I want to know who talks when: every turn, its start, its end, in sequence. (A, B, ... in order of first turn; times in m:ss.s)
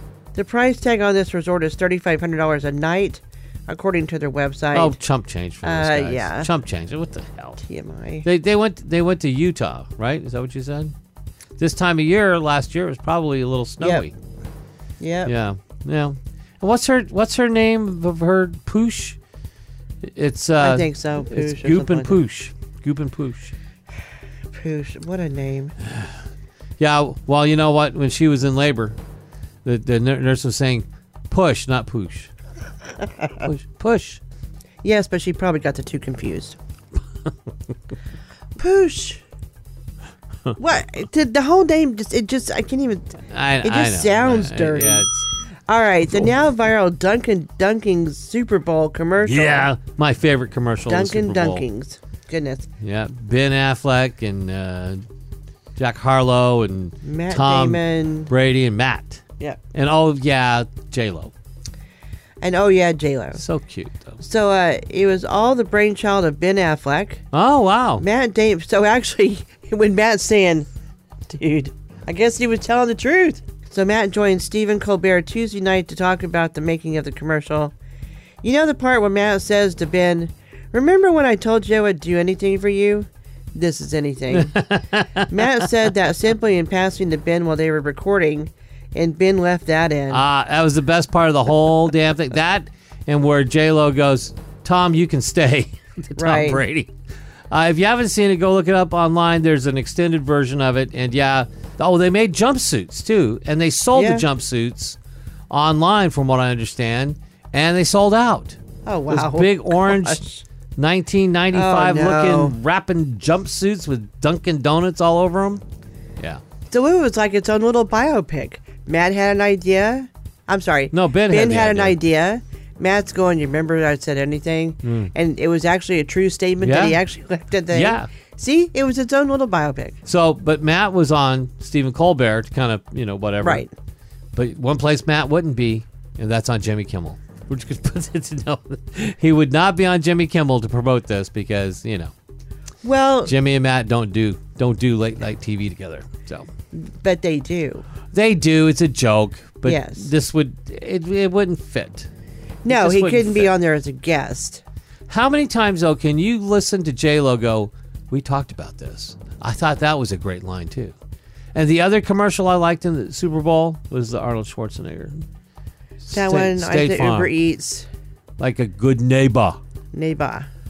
0:00.3-0:05.0 A
0:04.7-0:07.6 B
0:05.6-0:06.5 A
0:07.6-0:08.3 A
0:08.2-0:10.9 B
0:11.6-0:14.1 B
0:13.8-0:14.0 A
0:15.0-0:15.3 A
0:15.2-0:19.2 B
0:20.0-0:23.5 B
0:20.6-0:22.2 A
0:24.5-0:25.8 A
0:26.8-0:29.0 B
0:29.6-0:32.3 B
0:33.4-0:34.2 B
0:34.8-0:36.6 A
0:38.6-0:39.2 A
0:40.6-0:45.0 A
0:43.3-0:45.2 B
0:45.7-0:49.7 A
0:49.2-0:51.6 B
0:50.9-0:52.7 A
0:52.8-0:55.0 B
0:55.8-0:59.2 B
0:57.0-0:58.3 A
0:59.7-1:01.3 B
1:02.4-1:03.4 A
1:03.4-1:04.2 B
1:04.2-1:07.2 A
1:07.3-1:08.0 B
1:08.0-1:10.7 A
1:11.3-1:17.7 A
1:18.4-1:24.6 A
1:24.3-1:25.6 B
1:25.2-1:30.2 A
1:30.1-1:36.9 B
1:36.2-1:36.6 A
1:37.5-1:45.0 B
1:43.9-1:44.2 A
1:45.5-1:50.2 B
1:48.8-1:50.4 A
1:50.8-1:55.6 B
1:51.5-1:52.6 A
1:56.7-2:10.0 A
2:00.9-2:02.0 B
2:04.8-2:05.1 B
2:06.6-2:07.0 B
2:07.7-2:08.1 B
2:10.0-2:13.6 B
2:13.4-2:13.7 A
2:14.3-2:22.1 B
2:22.8-2:23.3 A
2:23.2-2:26.5 B
2:26.7-2:27.9 A
2:28.1-2:32.1 B
2:29.6-2:30.1 A
2:32.6-2:34.6 A
2:32.6-2:33.6 B
2:35.1-2:40.9 B
2:41.5-2:45.2 B
2:46.0-2:47.3 B
2:46.1-2:47.9 A
2:48.4-2:49.6 B
2:49.9-2:50.5 A